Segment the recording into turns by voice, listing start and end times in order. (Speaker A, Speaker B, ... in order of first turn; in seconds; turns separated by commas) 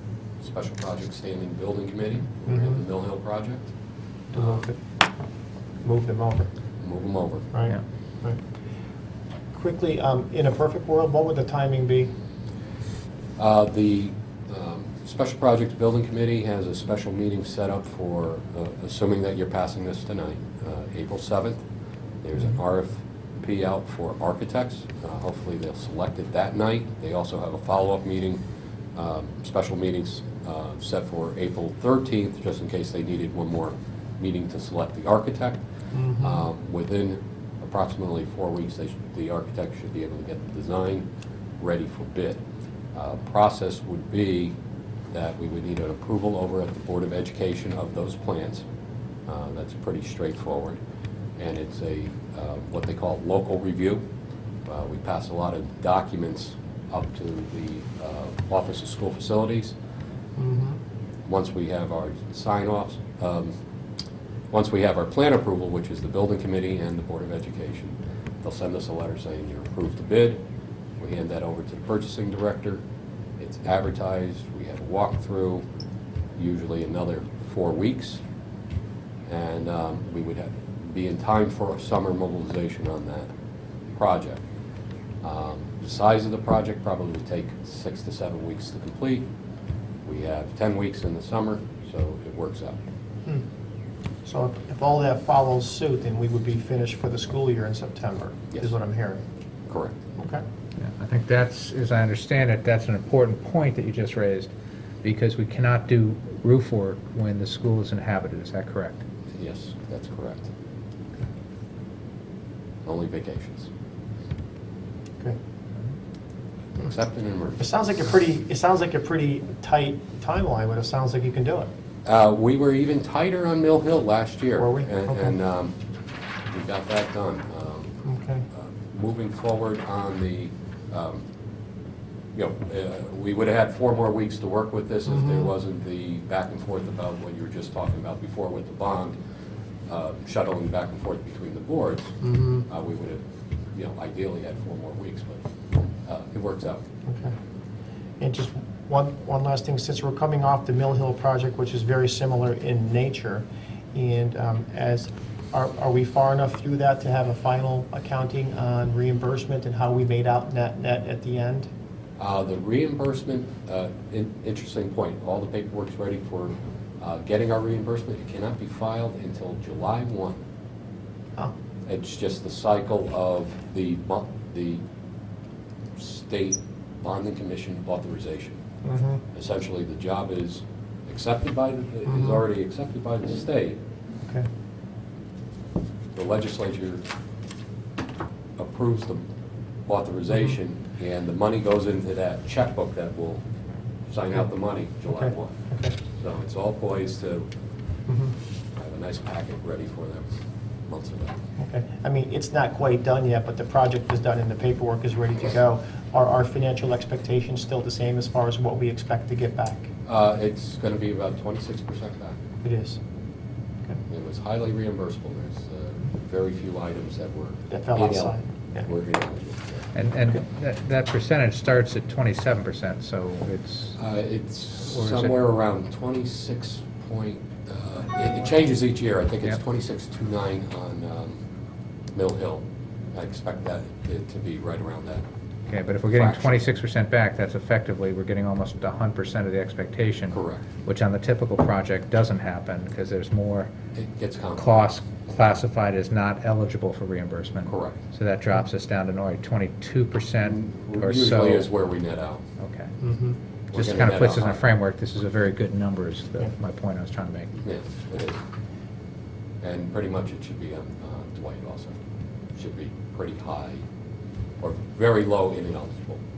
Speaker A: 0.4-3.7, Speaker B: 2.5-2.8, Speaker B: 4.3-4.8, Speaker A: 4.3-4.6, Speaker B: 5.8-6.5, Speaker A: 6.8-7.5, Speaker B: 7.5-8.4, Speaker B: 9.5-12.1, Speaker A: 13.4-21.6, Speaker A: 22.2-28.4, Speaker A: 28.9-35.6, Speaker B: 35.9-36.4, Speaker A: 36.2-41.1, Speaker A: 41.6-42.4, Speaker A: 42.9-44.5, Speaker A: 45.1-48.6, Speaker A: 49.3-50.8, Speaker A: 51.4-54.0, Speaker A: 54.6-59.7, Speaker B: 60.4-60.8, Speaker A: 61.3-63.5, Speaker A: 64.5-70.4, Speaker A: 71.0-72.8, Speaker A: 73.4-75.6, Speaker A: 76.3-78.2, Speaker A: 79.3-83.3, Speaker A: 83.9-84.4, Speaker A: 85.2-89.2, Speaker A: 90.0-92.8, Speaker B: 94.2-99.2, Speaker A: 99.7-100.0, Speaker B: 100.2-100.4, Speaker C: 100.8-104.5, Speaker C: 105.0-109.0, Speaker A: 109.3-110.5, Speaker A: 112.8-113.7, Speaker A: 116.8-117.6, Speaker B: 117.6-121.7, Speaker A: 122.0-125.8, Speaker B: 124.6-125.3, Speaker A: 126.5-128.0, Speaker B: 128.0-128.4, Speaker A: 128.5-131.2, Speaker A: 132.3-139.2, Speaker B: 135.1-135.4, Speaker A: 139.9-143.2, Speaker B: 142.2-142.7, Speaker A: 143.7-145.4, Speaker A: 146.0-146.8, Speaker B: 147.1-147.3, Speaker B: 148.2-161.7, Speaker A: 162.2-170.4, Speaker A: 171.9-174.8, Speaker A: 175.9-178.6, Speaker B: 178.8-179.2, Speaker A: 179.3-183.8, Speaker B: 182.1-182.4, Speaker A: 186.1-187.0, Speaker A: 188.6-189.2, Speaker A: 189.9-193.4, Speaker A: 194.1-197.5, Speaker B: 195.1-195.9, Speaker B: 198.1-198.3, Speaker A: 198.8-200.3, Speaker A: 200.9-201.4, Speaker B: 201.6-209.9, Speaker A: 210.1-212.4, Speaker B: 212.6-213.0, Speaker A: 214.1-219.9, Speaker B: 217.7-218.9, Speaker C: 219.9-224.0, Speaker A: 224.0-231.4, Speaker C: 224.9-225.4, Speaker A: 232.1-235.2, Speaker C: 235.7-243.7, Speaker A: 236.1-236.7, Speaker A: 240.3-240.7, Speaker A: 243.9-244.9, Speaker C: 244.6-251.7, Speaker A: 247.7-248.0, Speaker A: 250.4-252.4, Speaker C: 252.6-252.9, Speaker B: 253.0-253.4, Speaker C: 253.7-257.5, Speaker A: 253.7-254.6, Speaker A: 257.6-258.4, Speaker A: 259.6-262.0, Speaker A: 262.5-263.8, Speaker A: 264.6-266.2